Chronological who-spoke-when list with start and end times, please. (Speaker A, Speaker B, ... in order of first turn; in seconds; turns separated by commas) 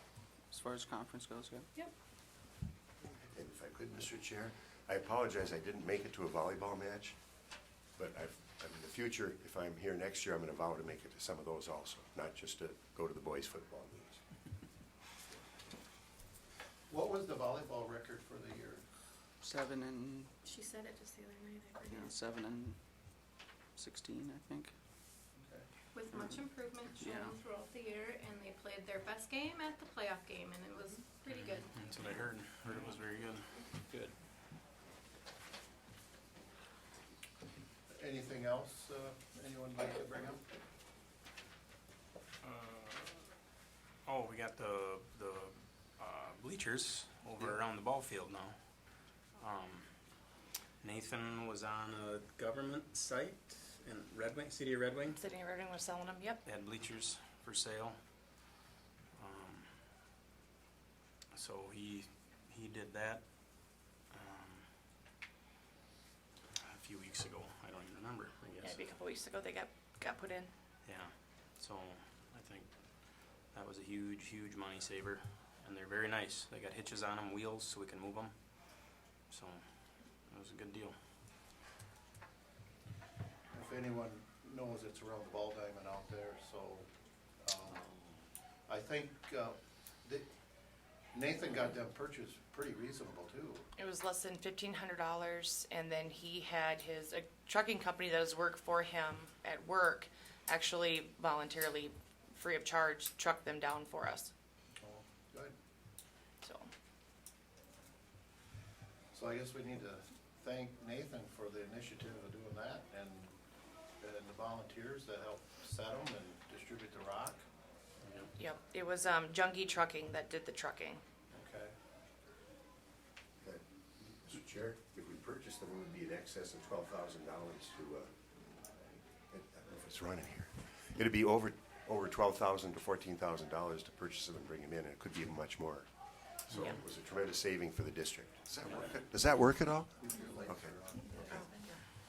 Speaker A: 0.5-1.7, Speaker B: 3.3-7.2, Speaker B: 8.0-14.2, Speaker C: 16.9-18.9, Speaker A: 19.4-20.3, Speaker D: 20.4-22.1, Speaker A: 21.9-22.8, Speaker A: 23.8-24.7, Speaker C: 25.4-25.7, Speaker D: 25.9-32.3, Speaker A: 26.1-26.4, Speaker A: 27.0-27.4, Speaker E: 31.3-34.1, Speaker C: 37.9-40.4, Speaker E: 42.4-43.2, Speaker E: 44.0-48.6, Speaker E: 49.4-49.9, Speaker E: 50.8-55.2, Speaker F: 55.1-56.4, Speaker E: 56.5-58.0, Speaker E: 59.2-59.7, Speaker E: 61.3-64.7, Speaker E: 66.6-68.8, Speaker F: 68.6-70.5, Speaker E: 70.8-72.7, Speaker E: 73.5-78.3, Speaker E: 79.3-79.7, Speaker E: 80.3-81.0, Speaker C: 83.5-86.9, Speaker C: 87.4-88.2, Speaker C: 88.7-90.3, Speaker C: 91.1-93.7, Speaker F: 93.8-104.3, Speaker C: 104.8-105.5, Speaker F: 106.4-106.7, Speaker C: 109.1-113.4, Speaker C: 114.0-117.5, Speaker E: 118.0-118.3, Speaker F: 118.4-121.0, Speaker C: 121.3-121.7, Speaker B: 123.4-128.1, Speaker B: 128.8-135.9, Speaker B: 136.5-141.4, Speaker F: 136.5-136.8, Speaker C: 140.0-141.5, Speaker F: 141.2-141.8